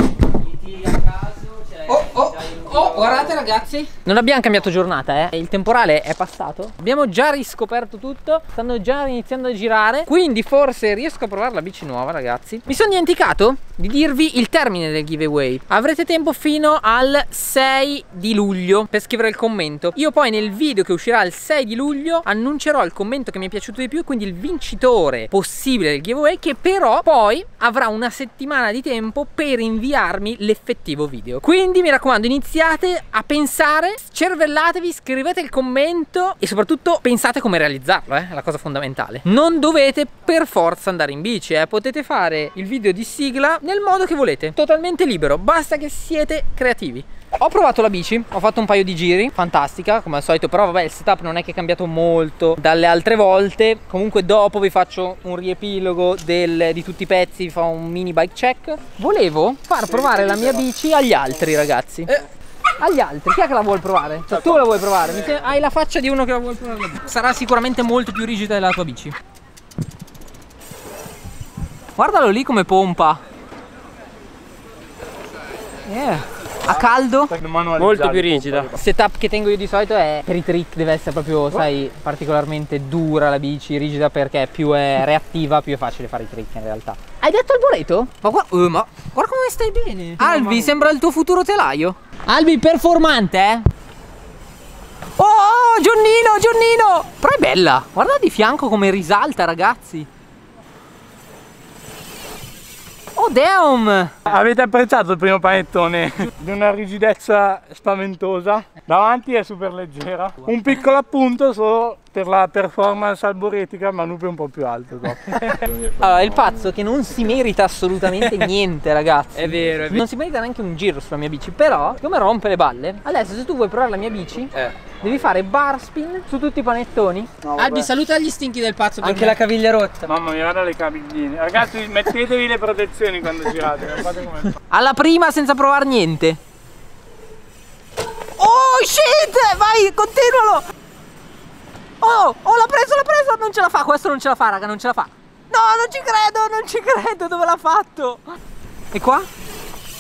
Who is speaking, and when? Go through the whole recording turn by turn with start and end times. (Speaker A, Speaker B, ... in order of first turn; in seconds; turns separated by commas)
Speaker A: 0.6-1.7, Speaker B: 1.8-62.2, Speaker B: 62.8-69.2, Speaker B: 72.0-73.2, Speaker B: 75.8-77.3, Speaker C: 76.7-78.8, Speaker A: 77.8-78.7, Speaker B: 78.8-93.7, Speaker B: 95.2-100.1, Speaker B: 103.1-104.1, Speaker C: 104.3-115.7, Speaker B: 115.5-129.4, Speaker A: 119.4-120.0, Speaker C: 127.5-127.8, Speaker A: 129.0-130.1, Speaker C: 130.1-134.5, Speaker B: 134.6-136.4, Speaker B: 138.3-140.7, Speaker B: 142.0-148.3, Speaker B: 148.9-149.3